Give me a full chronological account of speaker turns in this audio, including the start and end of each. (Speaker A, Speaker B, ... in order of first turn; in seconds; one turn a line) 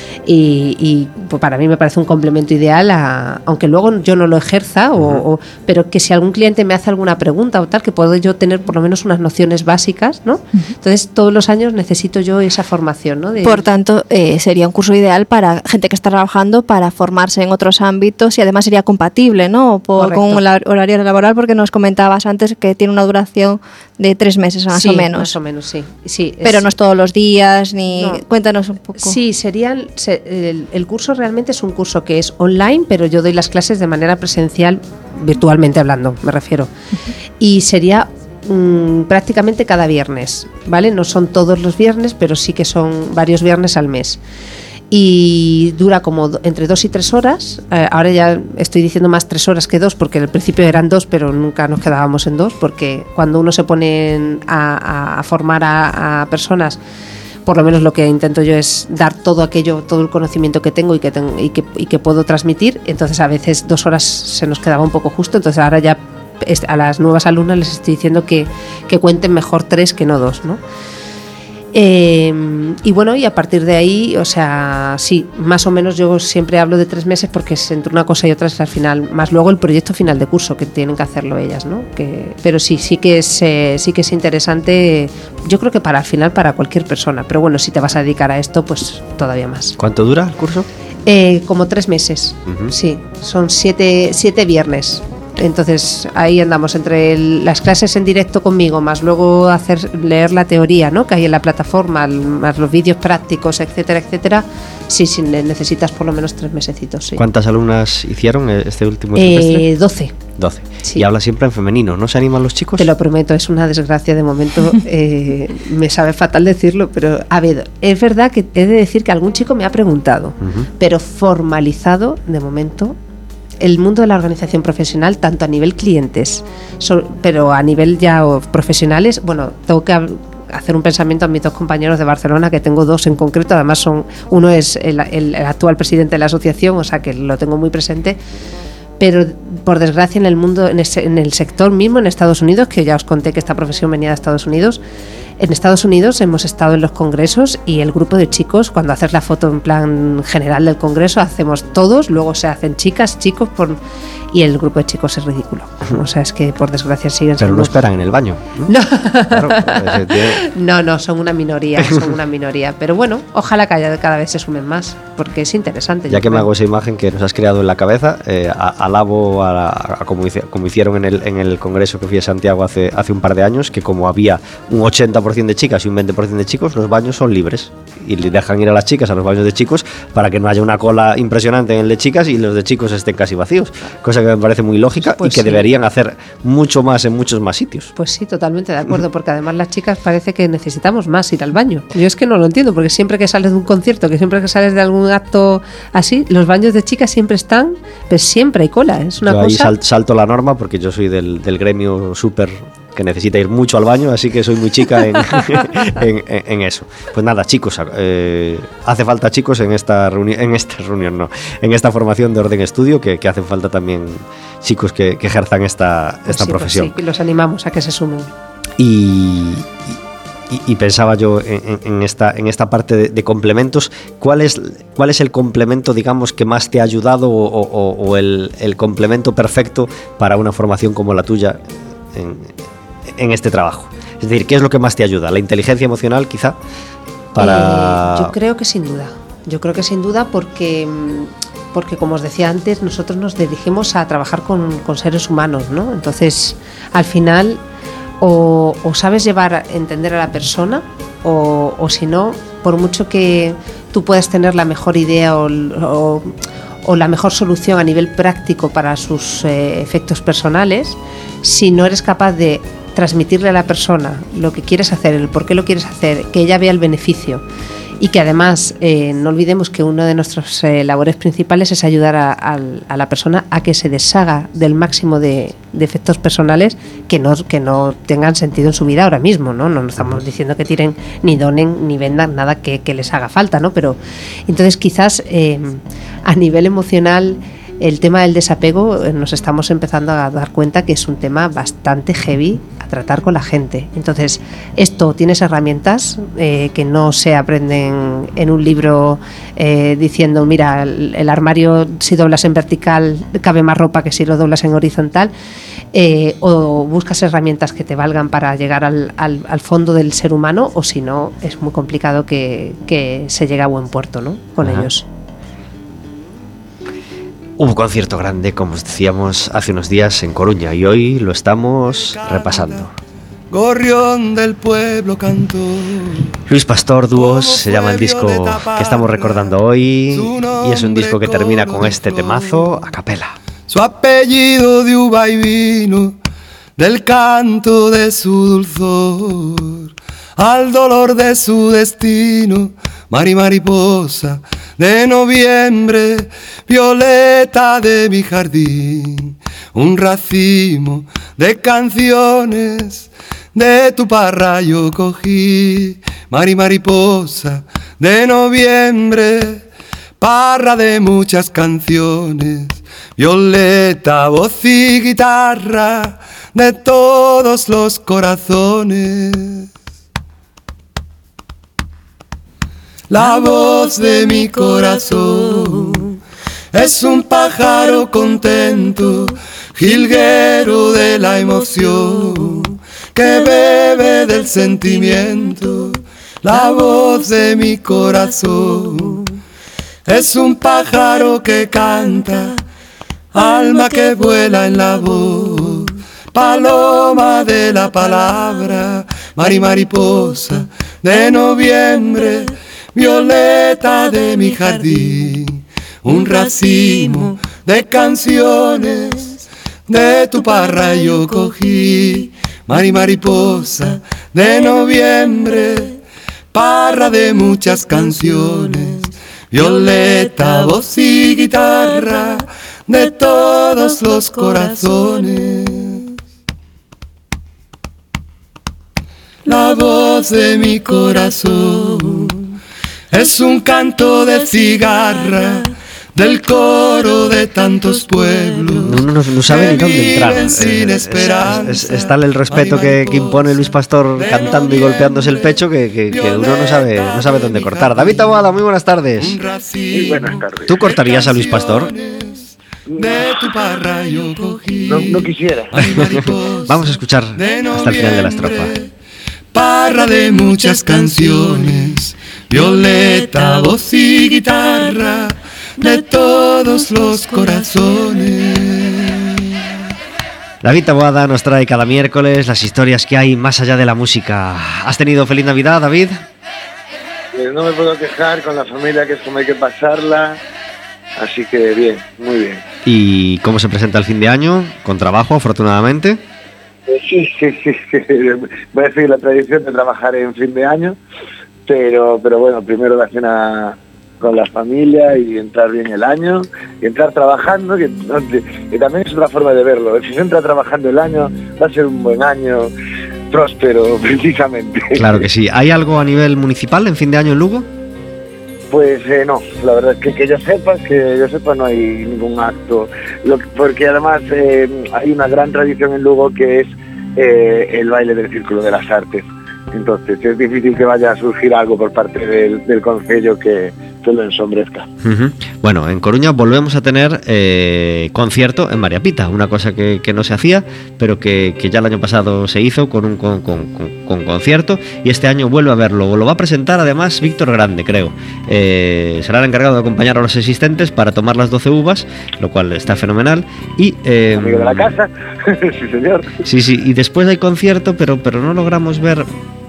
Speaker A: 0.3-13.6
Speaker B: 5.0-5.2
Speaker C: 13.4-25.4
Speaker A: 20.0-20.4
Speaker A: 24.7-26.7
Speaker C: 26.4-29.2
Speaker A: 27.9-28.2
Speaker A: 28.9-36.7
Speaker A: 37.4-44.2
Speaker A: 44.9-56.8
Speaker A: 57.5-70.6
Speaker A: 71.7-89.8
Speaker B: 89.8-90.7
Speaker A: 91.1-107.2
Speaker B: 92.5-92.7
Speaker B: 107.2-109.7
Speaker A: 109.2-110.2
Speaker B: 110.4-112.9
Speaker A: 112.8-123.0
Speaker B: 120.4-120.7
Speaker A: 123.6-138.2
Speaker A: 139.0-144.8
Speaker A: 145.4-153.8
Speaker A: 154.3-157.8
Speaker B: 157.4-158.7
Speaker A: 158.7-166.5
Speaker B: 159.3-160.4
Speaker B: 161.8-162.1
Speaker B: 166.1-187.9
Speaker A: 185.0-185.7
Speaker A: 188.0-199.7
Speaker B: 199.3-217.0
Speaker A: 216.3-218.3
Speaker B: 218.8-220.0
Speaker B: 220.5-231.6
Speaker B: 232.1-232.5
Speaker B: 233.1-236.6
Speaker B: 237.3-238.3
Speaker A: 237.4-247.6
Speaker A: 248.2-256.3
Speaker A: 256.9-267.4
Speaker A: 268.0-284.0
Speaker A: 284.5-305.3
Speaker A: 305.9-315.1
Speaker B: 314.6-314.9
Speaker B: 317.6-322.9
Speaker D: 322.1-322.9
Speaker D: 323.5-326.3
Speaker B: 326.5-333.4
Speaker D: 327.2-329.5
Speaker D: 330.1-332.7
Speaker D: 333.7-336.2
Speaker D: 336.8-359.6
Speaker D: 360.2-369.7
Speaker D: 373.1-376.2
Speaker D: 376.7-389.3
Speaker D: 390.1-392.6
Speaker D: 393.3-416.0
Speaker D: 416.5-426.1
Speaker D: 429.4-432.5
Speaker D: 433.1-443.6
Speaker B: 438.9-449.4
Speaker D: 444.2-448.5
Speaker D: 449.2-456.9
Speaker E: 449.9-450.7
Speaker B: 450.7-451.9
Speaker E: 454.9-455.8
Speaker B: 455.8-458.7
Speaker D: 457.4-458.9
Speaker D: 459.5-469.5
Speaker B: 470.6-476.2
Speaker E: 477.3-480.4
Speaker E: 481.2-482.6
Speaker B: 482.9-486.2
Speaker E: 486.9-491.0
Speaker E: 491.7-502.7
Speaker E: 503.3-505.2
Speaker B: 504.9-507.7
Speaker E: 508.7-524.9
Speaker B: 525.0-544.9
Speaker E: 544.4-546.3
Speaker B: 546.4-549.3